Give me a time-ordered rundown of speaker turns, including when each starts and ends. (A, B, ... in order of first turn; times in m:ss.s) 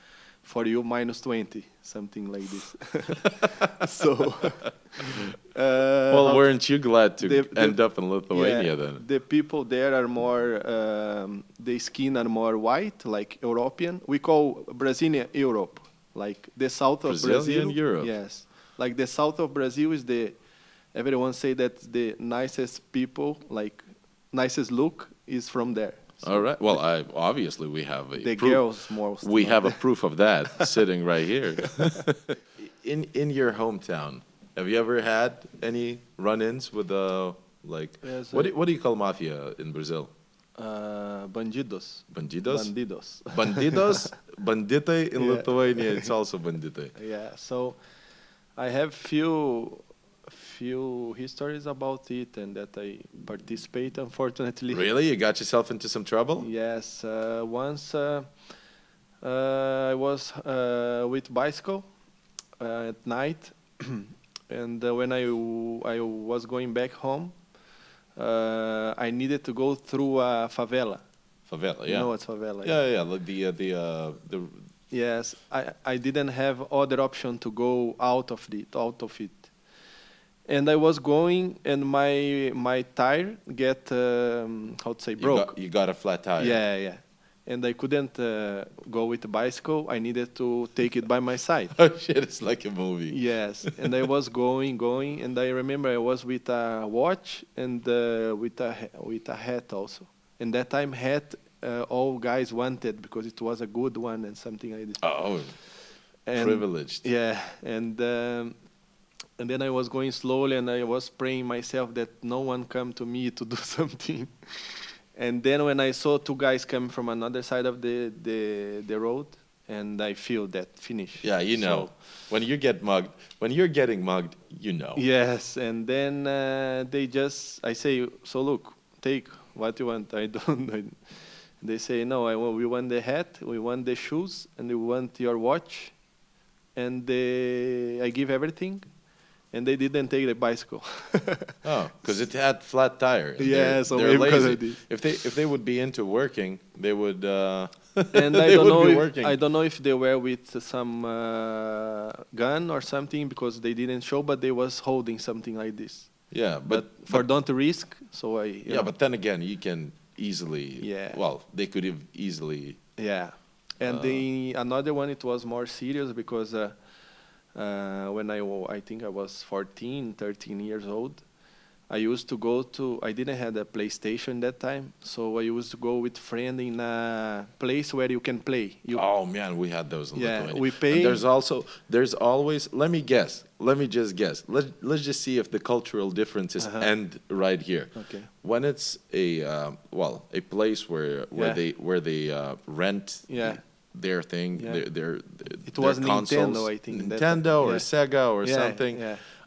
0:00.4-0:06.5 A
0:06.1-0:09.0 B
0:07.2-0:07.8 A
0:08.3-0:20.4 A
0:17.0-0:18.1 B
0:20.9-0:26.3 A
0:26.2-0:28.6 B
0:28.2-0:29.8 A
0:29.2-0:40.1 B
0:31.6-0:32.0 A
0:38.0-0:38.5 A
0:40.6-0:44.1 A
0:42.1-0:42.7 B
0:43.3-0:46.9 B
0:45.2-0:46.1 A
0:46.9-0:47.8 A
0:48.6-0:54.8 A
0:54.7-0:56.5 B
0:56.4-0:58.3 A
0:59.2-1:01.9 A
1:02.6-1:07.3 A
1:08.2-1:11.0 A
1:11.5-1:12.1 B
1:11.9-1:12.8 A
1:12.6-1:14.6 B
1:14.9-1:19.5 A
1:20.5-1:25.6 A
1:25.2-1:26.6 B
1:26.4-1:31.8 A
1:31.7-1:33.9 B
1:33.1-1:45.0 A
1:45.0-1:45.5 B
1:46.2-1:48.5 A
1:46.4-1:47.0 B
1:49.4-2:01.9 A
2:01.2-2:05.0 B
2:05.0-2:11.0 A
2:11.6-2:15.9 A
2:16.8-2:18.8 A
2:19.5-2:21.6 A
2:21.6-2:29.4 B
2:23.4-2:24.8 A
2:28.1-2:36.1 A
2:36.3-2:37.2 B
2:36.7-2:38.9 A
2:38.7-2:42.8 B
2:40.8-2:41.2 A
2:43.0-2:46.8 A
2:43.8-2:44.2 B
2:47.5-2:51.2 A
2:51.9-2:59.0 A
2:58.9-3:19.0 B
3:00.1-3:01.2 A
3:06.6-3:06.9 A
3:07.9-3:08.3 A
3:11.3-3:11.6 A
3:13.3-3:13.6 A
3:14.6-3:14.8 A
3:15.6-3:17.9 A
3:18.4-3:19.2 A